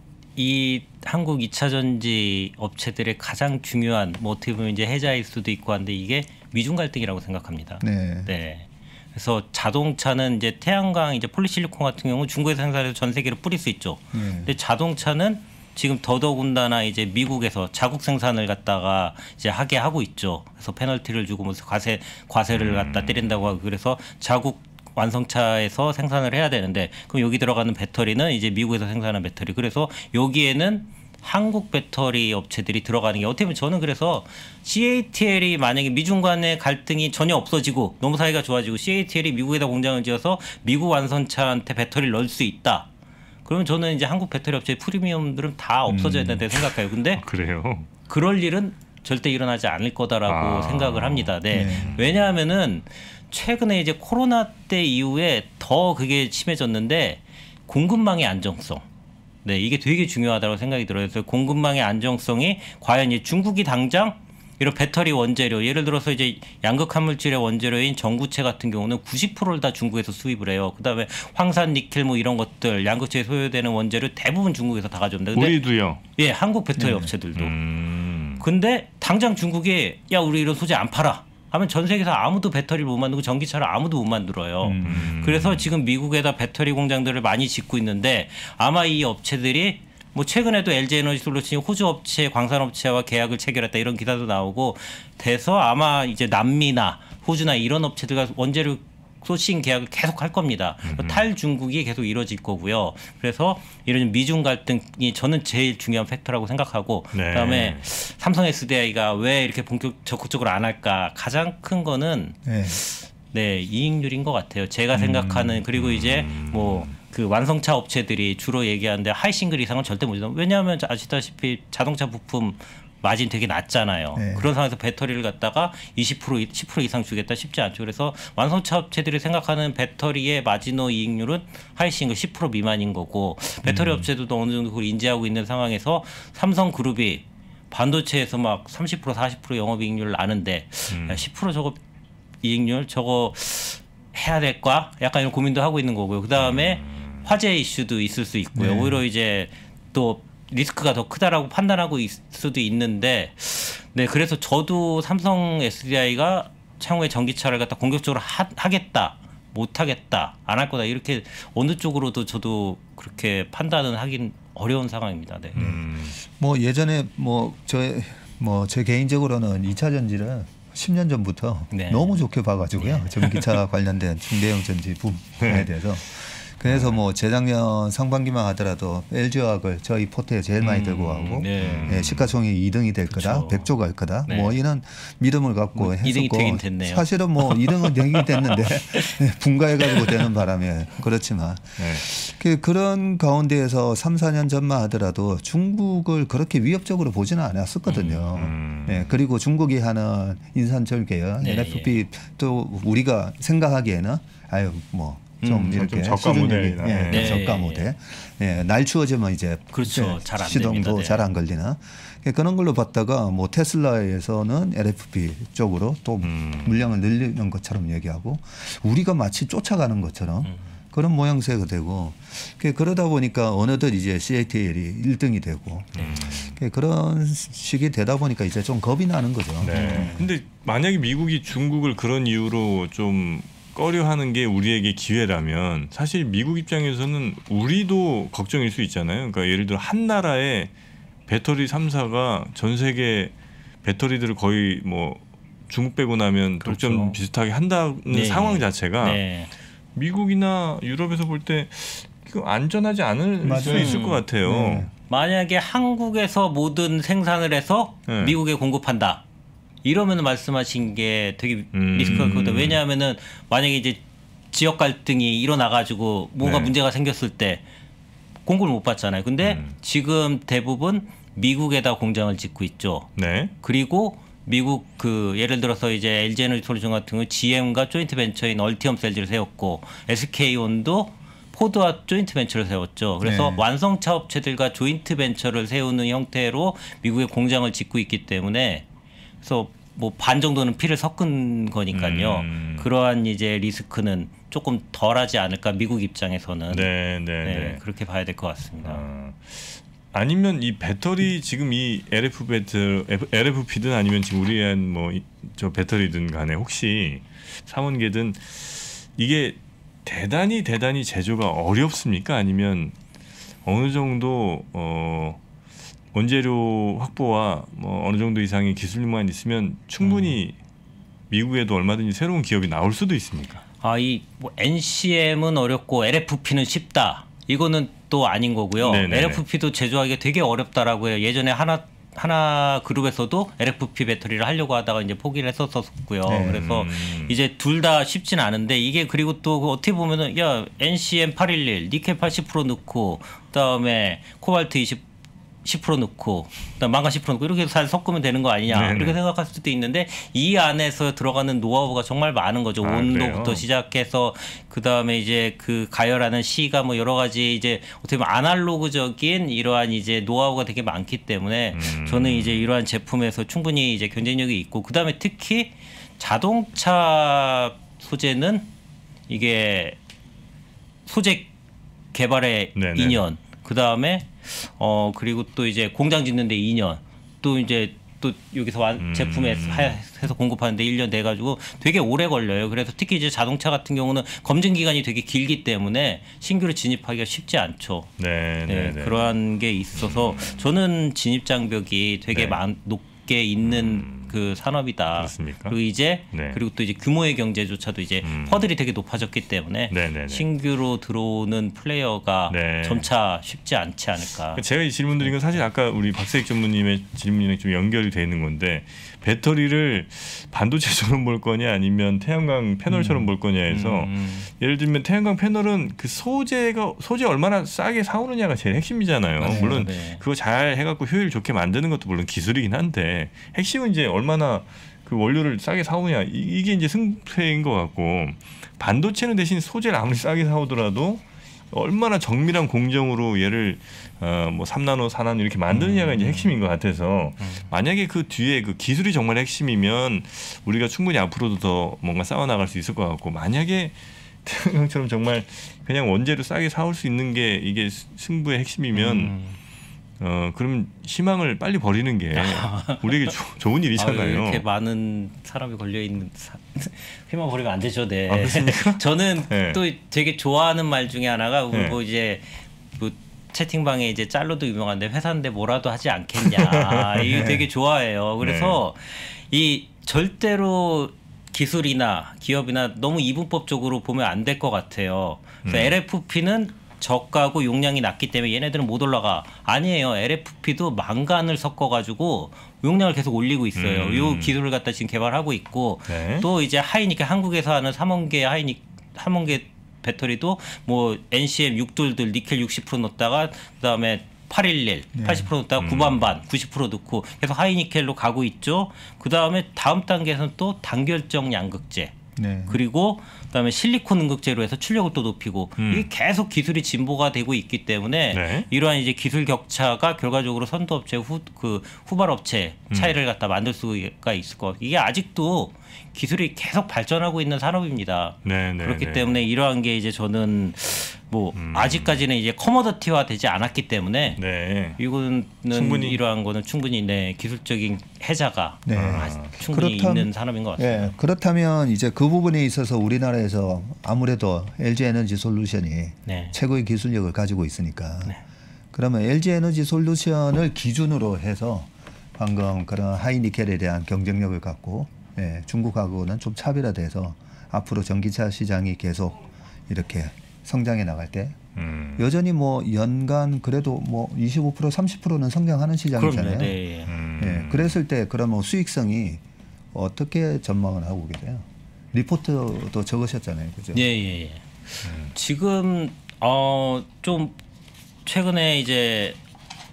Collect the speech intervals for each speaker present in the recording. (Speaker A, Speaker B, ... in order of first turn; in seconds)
Speaker A: 0.4-42.9, 43.5-47.2, 48.1-58.9, 59.5-77.6, 78.4-141.8, 142.4-165.6, 171.7-172.2, 172.8-173.5, 180.6-182.0, 183.1-183.7, 184.3-184.6, 185.8-189.1, 201.4-202.0, 205.4-205.8, 207.1-207.9, 209.7-211.2, 229.7-230.2, 246.6-247.2, 248.1-249.5, 253.6-254.2, 255.1-259.2, 259.8-267.6, 268.5-273.1, 273.6-288.9, 289.4-299.0, 320.0-320.4, 323.8-345.0, 345.6-368.7, 369.3-370.0, 371.1-371.5, 372.1-388.1, 388.7-404.6, 413.7-414.5, 419.4-420.2, 435.7-436.5, 437.4-437.6, 448.9-449.6, 452.3-453.4, 453.9-502.1, 502.7-524.4, 525.0-531.1, 536.3-536.6, 556.1-557.1, 563.9-567.6, 568.3-569.4
Speaker B: 7.8-8.3, 14.1-14.5, 46.0-46.4, 51.5-51.9, 76.8-77.1, 84.6-85.1, 112.5-112.8, 124.2-124.5, 148.6-149.0, 165.6-230.3, 253.4-254.9, 283.2-283.6, 336.3-336.7, 412.9-413.2, 419.4-419.9, 495.1-495.5, 502.4-502.8, 528.9-538.4, 538.9-551.6, 552.2-556.8, 557.4-559.4, 559.9-564.1
Speaker C: 22.5-23.4, 47.1-47.9, 50.3-52.3, 75.3-76.0, 77.3-78.4, 84.8-85.7, 100.8-101.2, 107.1-107.8, 115.0-116.9, 133.7-134.1, 140.9-141.2, 146.4-147.3, 165.5-166.2, 175.4-175.7, 176.7-176.9, 181.6-182.3, 191.8-192.0, 197.9-199.1, 205.7-207.5, 216.2-216.8, 225.9-226.6, 229.6-240.7, 241.3-243.3, 243.8-249.2, 249.9-254.9, 258.1-258.4, 261.7-262.8, 266.4-266.7, 269.4-269.8, 273.2-273.5, 291.9-292.9, 296.7-297.8, 298.8-312.9, 313.6-315.4, 316.1-320.6, 321.3-323.6, 328.8-329.4, 336.4-337.4, 348.7-349.2, 352.8-353.6, 361.7-362.6, 372.8-373.2, 379.0-380.0, 388.2-389.2, 389.9-390.7, 392.3-392.6, 393.6-394.4, 395.2-395.8, 396.3-396.6, 398.2-398.7, 399.9-400.5, 402.5-403.1, 404.5-449.3, 450.2-454.6, 458.3-459.8, 461.7-462.0, 466.4-467.6, 468.4-468.8, 475.6-476.0, 483.8-484.6, 486.1-486.5, 495.8-496.2, 505.8-506.1, 508.3-508.7, 512.9-513.2, 518.4-519.4, 521.5-522.2, 524.4-525.0, 525.7-526.2, 528.9-529.5, 551.8-552.3, 557.1-558.0, 565.0-565.3